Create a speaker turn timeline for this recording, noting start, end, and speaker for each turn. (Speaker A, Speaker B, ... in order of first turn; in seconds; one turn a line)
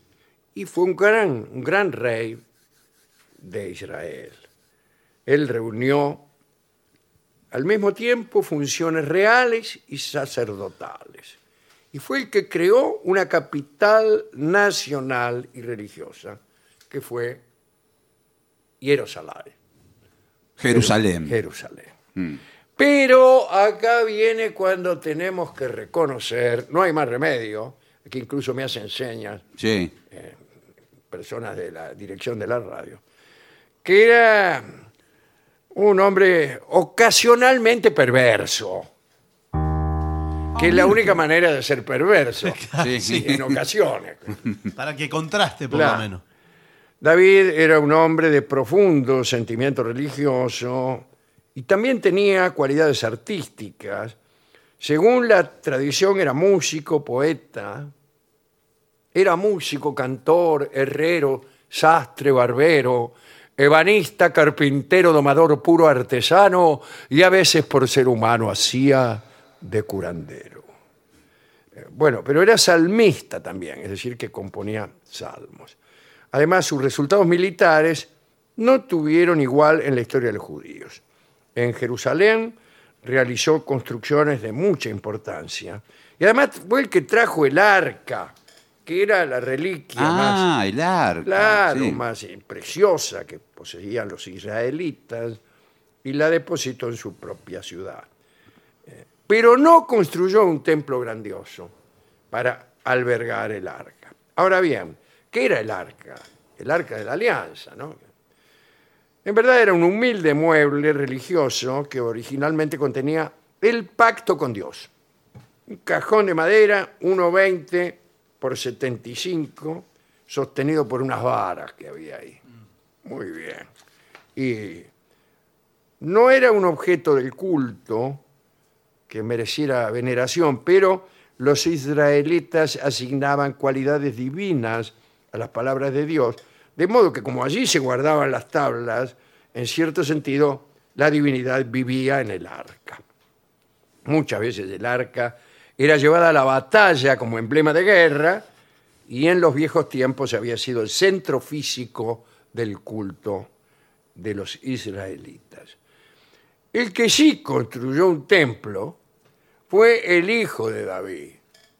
Speaker A: 0.5-2.4
Speaker A: 3.4-4.4
Speaker A: 5.2-6.2
Speaker A: 7.5-11.4
Speaker A: 11.9-16.4
Speaker A: 16.9-17.4
Speaker A: 18.8-19.5
Speaker B: 20.6-21.4
Speaker A: 20.7-21.9
Speaker A: 22.8-29.4
Speaker B: 29.6-29.9
Speaker A: 30.1-30.4
Speaker A: 31.1-33.0
Speaker A: 33.8-34.7
Speaker A: 35.7-38.9
Speaker B: 40.5-41.0
Speaker A: 40.5-44.4
Speaker C: 42.4-43.3
Speaker B: 42.8-43.5
Speaker C: 44.8-46.2
Speaker A: 45.7-46.1
Speaker A: 47.0-54.1
Speaker A: 54.8-57.9
Speaker A: 59.1-70.7
Speaker A: 71.8-75.8
Speaker A: 76.3-81.0
Speaker A: 81.5-88.3
Speaker A: 88.8-90.4
Speaker B: 90.0-92.0
Speaker A: 91.2-95.4
Speaker A: 96.0-98.1
Speaker A: 98.9-101.7
Speaker A: 102.3-108.0
Speaker A: 109.2-114.9
Speaker A: 115.7-122.4
Speaker A: 123.0-123.7
Speaker A: 124.3-124.9
Speaker A: 126.0-128.2
Speaker A: 129.1-143.0
Speaker A: 144.1-148.5
Speaker A: 149.1-153.5
Speaker A: 154.1-155.8
Speaker A: 156.7-159.0
Speaker A: 159.7-161.4